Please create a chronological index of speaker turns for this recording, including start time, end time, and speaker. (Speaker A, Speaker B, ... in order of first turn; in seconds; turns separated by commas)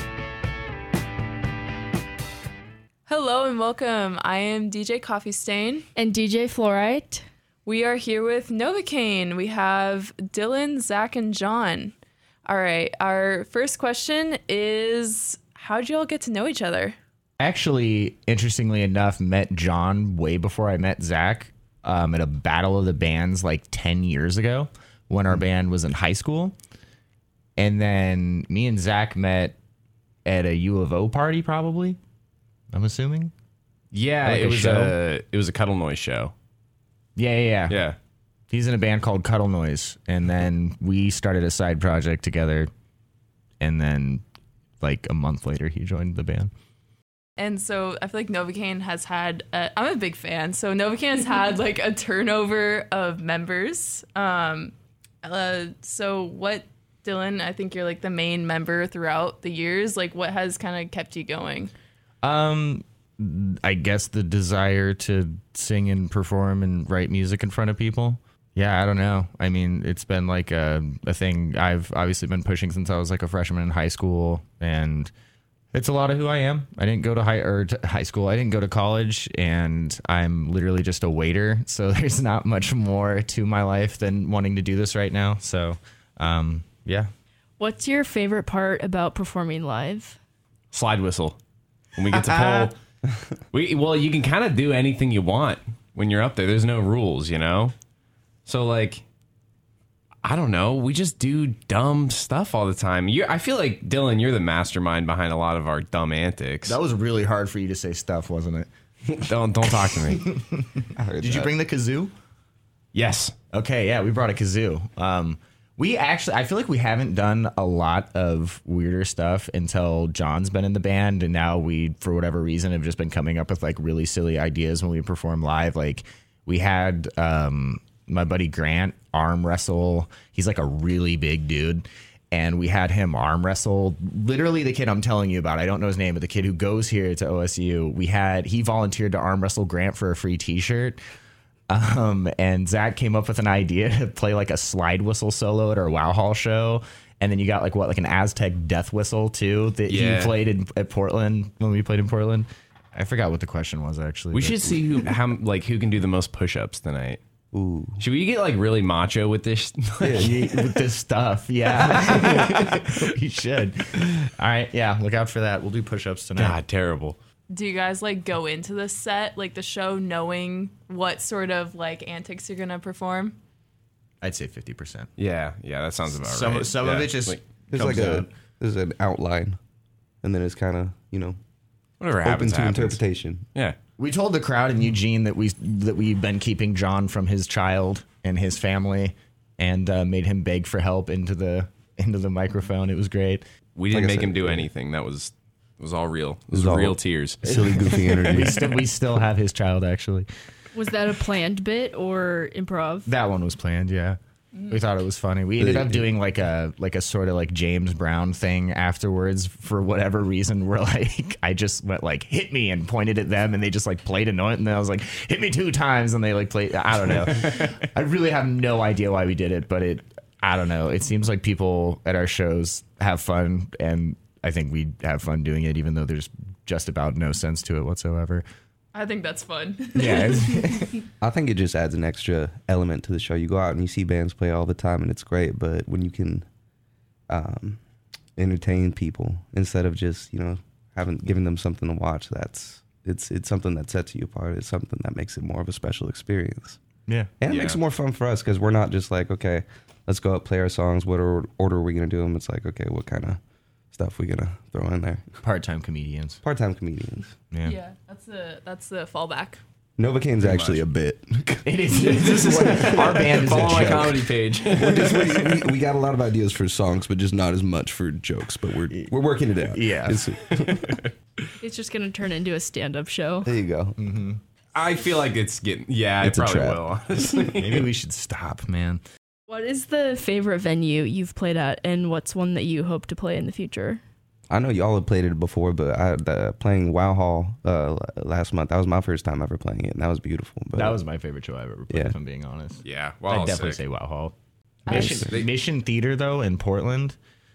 Speaker A: 3.1-5.9, Speaker B: 6.0-7.2, Speaker A: 7.7-11.9, Speaker A: 12.5-17.0, Speaker C: 17.4-26.6, Speaker C: 27.6-29.6, Speaker C: 30.2-32.0, Speaker C: 32.7-33.3, Speaker D: 33.9-36.3, Speaker C: 34.2-35.0, Speaker C: 37.2-37.8, Speaker D: 37.7-38.0, Speaker C: 38.5-42.7, Speaker C: 43.6-44.2, Speaker C: 44.8-46.5, Speaker A: 47.4-61.7, Speaker C: 62.2-75.1, Speaker C: 75.7-87.1, Speaker B: 87.6-90.2, Speaker D: 90.7-91.4, Speaker D: 92.0-92.7, Speaker C: 92.1-92.7, Speaker D: 93.5-97.7, Speaker D: 98.5-99.0, Speaker D: 100.2-106.8, Speaker C: 106.7-108.7, Speaker D: 109.1-110.2, Speaker C: 109.6-112.1, Speaker E: 110.9-111.5, Speaker D: 112.9-113.3, Speaker C: 113.5-141.0, Speaker C: 141.7-154.9, Speaker D: 149.9-150.4, Speaker D: 154.3-157.2, Speaker E: 157.5-158.0, Speaker D: 158.0-160.7, Speaker E: 160.0-160.4, Speaker C: 160.2-166.6, Speaker D: 166.4-167.2, Speaker A: 167.5-173.4, Speaker C: 174.2-175.1, Speaker D: 175.2-177.4, Speaker C: 176.1-178.3, Speaker E: 177.7-179.6, Speaker E: 180.2-181.4, Speaker D: 182.0-183.0, Speaker E: 182.2-183.5, Speaker C: 184.0-193.4, Speaker D: 193.8-197.4, Speaker E: 193.9-194.7, Speaker E: 196.5-198.9, Speaker C: 197.5-200.3, Speaker B: 200.7-203.1, Speaker C: 203.1-228.4, Speaker E: 205.6-206.1, Speaker D: 217.4-217.7, Speaker A: 228.9-230.2, Speaker C: 229.9-231.0, Speaker E: 231.2-236.5, Speaker E: 237.3-237.8, Speaker E: 238.4-246.8, Speaker E: 247.4-253.4, Speaker D: 247.5-247.8, Speaker E: 253.9-255.3, Speaker C: 255.4-256.4, Speaker E: 256.4-257.3, Speaker C: 257.5-257.8, Speaker A: 257.6-259.6, Speaker E: 260.0-263.9, Speaker D: 260.4-260.8, Speaker C: 261.6-264.2, Speaker D: 261.9-265.6, Speaker E: 264.7-271.0, Speaker C: 268.9-270.3, Speaker B: 271.6-273.5, Speaker E: 273.4-274.0, Speaker C: 274.0-274.4, Speaker D: 274.8-277.9, Speaker E: 276.2-276.9, Speaker C: 277.5-279.0, Speaker B: 279.5-284.0, Speaker E: 284.5-291.0, Speaker C: 290.8-294.3, Speaker D: 292.8-293.8, Speaker C: 294.9-297.2, Speaker E: 294.9-295.4, Speaker D: 294.9-295.5